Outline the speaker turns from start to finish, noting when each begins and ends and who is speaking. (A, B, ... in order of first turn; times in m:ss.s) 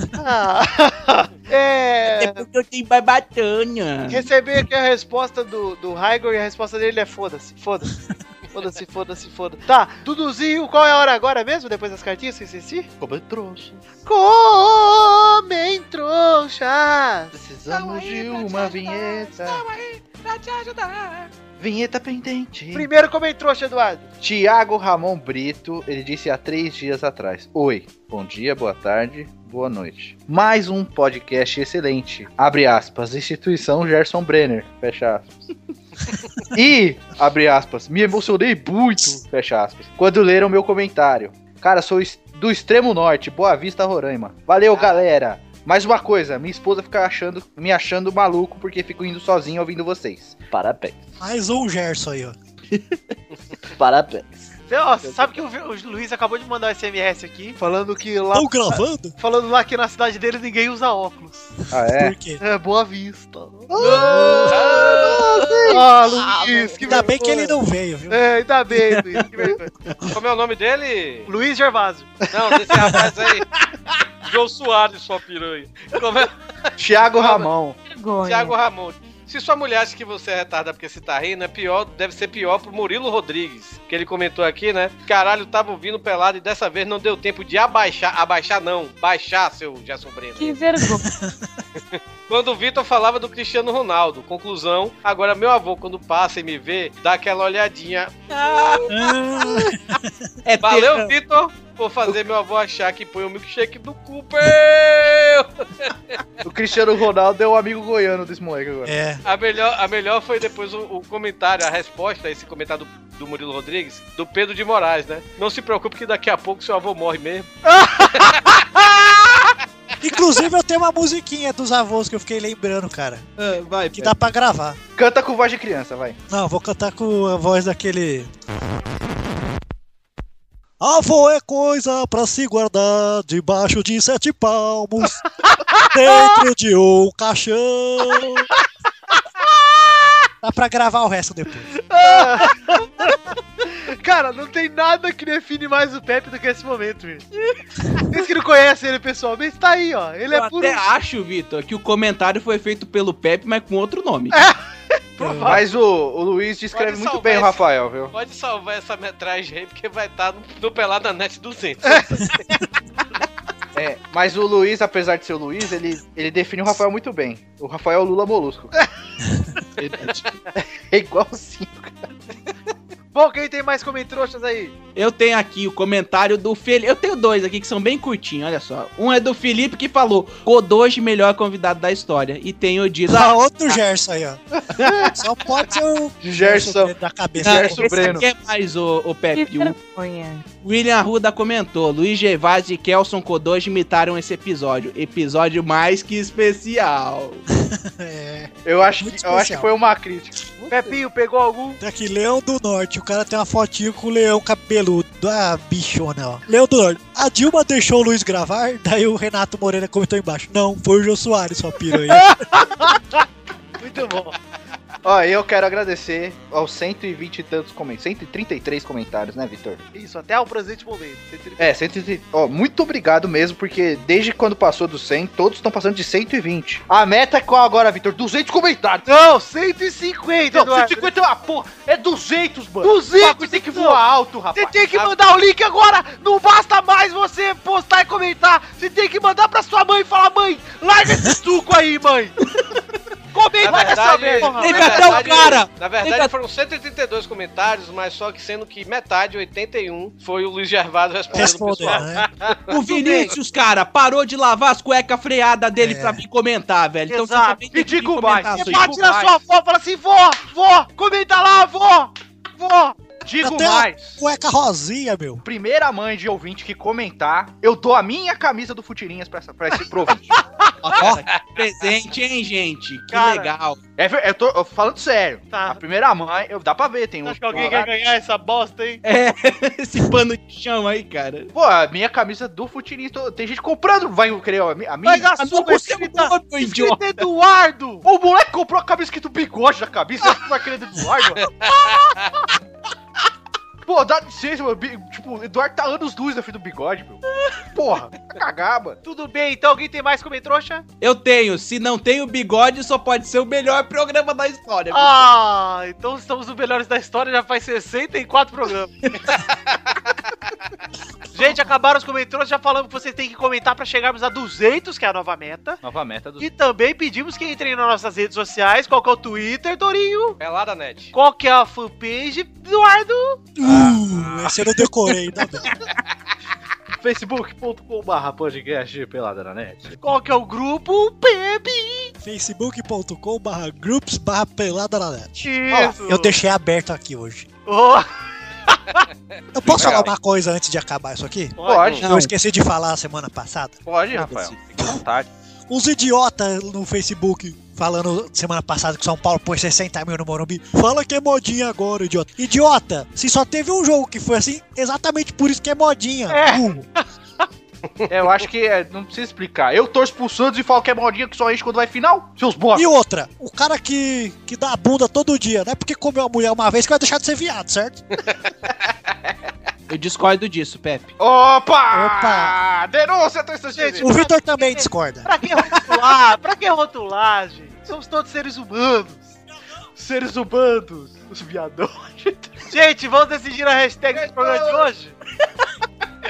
0:00.2-0:02.4 A
0:02.2-0:04.3 B
0:04.1-0:07.9 A
0:08.5-0:12.9 A
0:13.0-0:13.8 C
0:14.1-0:17.4 A
0:17.3-0:19.7 C
0:17.8-0:18.1 B
0:18.2-0:21.3 D
0:21.6-0:22.9 C
0:22.7-0:24.1 A
0:24.2-0:35.5 C
0:36.5-0:51.0 C
0:44.7-0:45.0 D
0:51.2-0:52.4 E
0:52.7-0:53.2 B
0:53.8-0:54.3 C
0:54.7-0:58.5 A
0:58.3-0:59.2 E
0:59.2-1:01.5 A
1:01.7-1:02.2 C
1:01.8-1:02.4 E
1:02.4-1:03.7 A
1:03.7-1:05.8 C
1:03.8-1:04.2 B
1:03.9-1:04.5 E
1:04.5-1:05.2 D
1:05.7-1:07.5 A
1:06.8-1:08.2 E
1:08.1-1:09.7 A
1:08.9-1:09.2 B
1:09.8-1:10.1 B
1:10.1-1:11.3 D
1:11.3-1:12.1 A
1:12.3-1:13.5 D
1:14.2-1:17.5 D
1:16.8-1:17.8 C
1:17.9-1:18.6 F
1:18.2-1:30.6 D
1:30.4-1:31.1 F
1:31.1-1:31.5 E
1:31.8-1:38.8 D
1:38.3-1:39.6 B
1:38.9-1:40.3 E
1:40.4-1:41.1 B
1:40.6-1:46.2 D
1:46.4-1:48.9 C
1:48.9-1:49.2 E
1:49.2-1:57.5 D
1:58.1-1:58.7 D
2:00.0-2:03.3 E
2:03.4-2:04.1 B
2:03.9-2:04.8 E
2:05.0-2:06.2 C
2:06.3-2:08.3 E
2:10.8-2:15.2 E
2:15.8-2:18.5 E
2:20.4-2:21.7 E
2:21.9-2:27.3 A
2:22.1-2:22.4 C
2:28.1-2:30.8 A
2:30.3-2:34.4 B
2:34.3-2:34.6 A
2:35.2-2:35.7 A
2:35.2-2:35.5 E
2:35.4-2:38.1 C
2:36.7-2:42.2 D
2:41.8-2:42.3 A
2:43.8-2:48.9 C
2:49.8-2:50.2 B
2:50.6-2:52.1 C
2:53.1-2:54.7 A
2:55.0-3:03.4 B
3:03.1-3:08.2 E
3:04.7-3:05.1 C
3:06.2-3:08.3 C
3:07.4-3:09.8 B
3:09.3-3:10.5 F
3:10.6-3:17.4 B
3:17.6-3:19.7 E
3:18.6-3:21.0 C
3:20.7-3:21.8 A
3:21.8-3:32.4 E
3:32.5-3:33.2 A
3:33.8-3:34.4 A
3:35.0-3:39.8 C
3:39.9-3:41.7 A
3:41.6-3:49.1 C
3:49.1-3:51.1 A
3:50.5-3:55.2 C
3:52.8-3:54.0 A
3:54.5-4:02.4 A
4:03.3-4:05.6 A
4:03.6-4:12.6 D
4:03.7-4:06.3 B
4:11.3-4:12.3 E
4:12.7-4:19.0 B
4:12.9-4:13.3 A
4:15.8-4:16.2 E
4:17.1-4:17.6 A
4:17.7-4:19.4 C
4:18.5-4:23.0 A
4:23.2-4:24.2 C
4:23.4-4:25.4 E
4:25.4-4:30.3 C
4:29.8-4:33.8 B
4:31.0-4:31.2 E
4:33.1-4:33.5 A
4:34.0-4:37.9 C
4:35.5-4:35.8 A
4:37.2-4:39.0 A
4:37.5-4:37.8 B
4:39.0-4:41.5 B
4:41.5-4:45.3 C
4:45.0-4:48.0 A
4:45.4-4:47.0 B
4:48.0-4:51.5 C
4:51.6-4:52.4 A
4:53.8-4:59.0 C
4:59.0-5:00.8 A
5:01.0-5:05.2 B
5:04.9-5:09.3 A
5:09.1-5:09.4 B
5:11.3-5:15.8 A
5:15.8-5:16.5 C
5:16.4-5:20.4 A
5:20.4-5:21.1 D
5:21.1-5:23.4 A
5:23.6-5:25.7 E
5:23.6-5:24.6 C
5:27.0-5:30.0 C
5:30.0-5:32.1 A
5:32.2-5:37.5 E
5:35.4-5:36.4 A
5:37.7-5:38.1 A
5:38.7-5:39.0 A
5:39.5-5:45.0 E
5:39.6-5:40.1 C
5:41.6-5:42.0 A
5:41.6-5:42.1 C
5:42.0-5:42.3 B
5:43.8-5:45.3 C
5:44.2-5:44.6 B
5:45.7-5:56.9 E
5:56.3-5:56.6 A
5:58.1-6:02.9 C
6:02.8-6:08.0 E
6:09.9-6:11.1 B
6:11.2-6:14.1 C
6:11.9-6:12.6 E
6:13.8-6:19.4 A
6:14.0-6:15.3 E
6:20.0-6:22.6 C
6:22.7-6:25.2 A
6:24.1-6:24.9 C